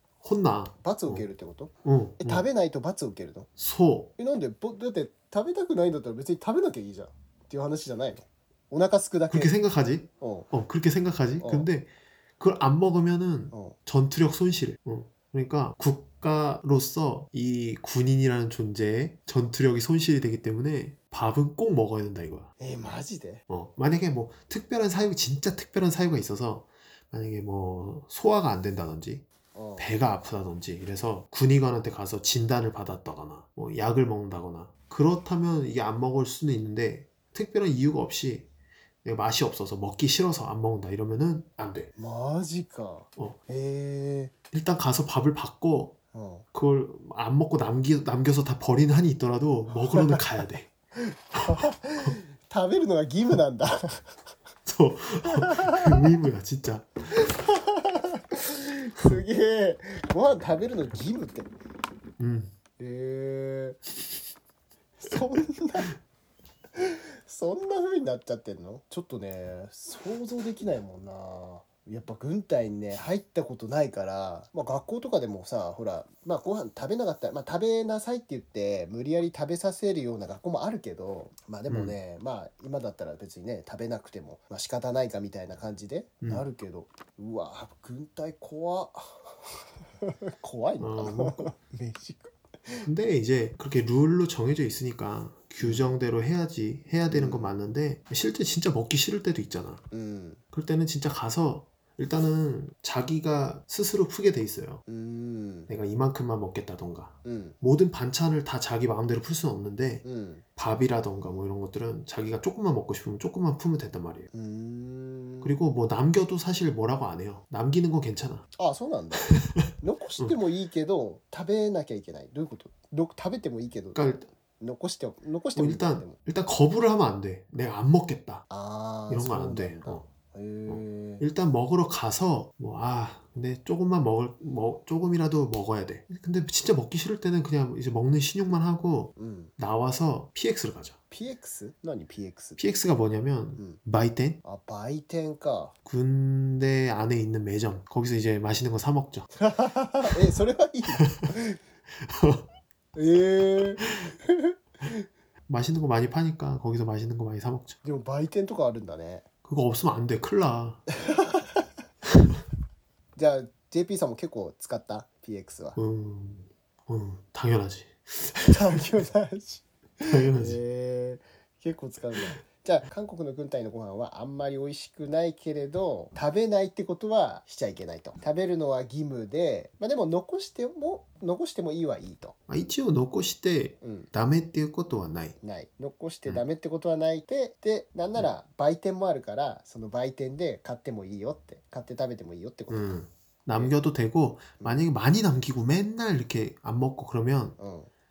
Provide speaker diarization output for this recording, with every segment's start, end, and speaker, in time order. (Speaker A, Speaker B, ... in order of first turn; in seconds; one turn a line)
Speaker A: 0.2-1.3
Speaker B: 0.8-3.5
Speaker A: 1.8-2.5
Speaker A: 3.6-4.1
Speaker B: 4.2-9.5
Speaker A: 9.3-22.5
Speaker B: 10.2-10.5
Speaker B: 11.4-11.7
Speaker B: 13.5-13.8
Speaker B: 22.6-23.4
Speaker A: 23.5-29.2
Speaker B: 29.5-29.9
Speaker A: 29.8-38.5
Speaker A: 39.0-41.9
Speaker B: 42.0-44.3
Speaker A: 44.5-46.0
Speaker B: 46.1-46.5
Speaker A: 46.5-50.7
Speaker B: 49.9-50.2
Speaker B: 51.0-54.2
Speaker A: 54.7-56.9
Speaker B: 55.2-56.0
Speaker B: 57.1-61.5
Speaker A: 62.2-62.5
Speaker B: 62.8-63.8
Speaker B: 65.0-65.9
Speaker B: 66.8-89.4
Speaker A: 81.7-82.0
Speaker B: 90.0-92.9
Speaker A: 90.8-91.5
Speaker A: 92.8-99.8
Speaker B: 95.6-95.9
Speaker B: 97.1-97.6
Speaker B: 99.9-100.4
Speaker A: 100.5-104.8
Speaker B: 104.9-105.7
Speaker A: 105.7-110.0
Speaker B: 107.2-107.6
Speaker B: 110.0-110.4
Speaker A: 110.6-114.3
Speaker B: 114.3-115.6
Speaker A: 115.4-118.5
Speaker B: 118.6-124.0
Speaker A: 119.3-119.6
Speaker A: 124.0-124.3
Speaker B: 124.6-126.2
Speaker A: 125.6-128.4
Speaker B: 128.5-131.3
Speaker A: 129.1-130.1
Speaker A: 130.7-141.0
Speaker B: 139.2-139.5
Speaker B: 141.1-142.7
Speaker A: 142.6-144.4
Speaker B: 144.4-145.7
Speaker A: 145.9-149.3
Speaker B: 149.4-151.6
Speaker A: 151.0-151.3
Speaker A: 152.0-152.5
Speaker B: 152.9-155.0
Speaker A: 155.5-157.8
Speaker B: 157.8-159.2
Speaker A: 159.4-160.8
Speaker B: 161.0-161.7
Speaker B: 163.2-165.8
Speaker A: 165.8-168.8
Speaker B: 168.4-182.4
Speaker A: 170.1-170.6
Speaker A: 182.5-185.4
Speaker B: 183.8-184.1
Speaker B: 185.4-193.0
Speaker A: 192.7-197.6
Speaker B: 194.6-194.8
Speaker B: 197.6-197.9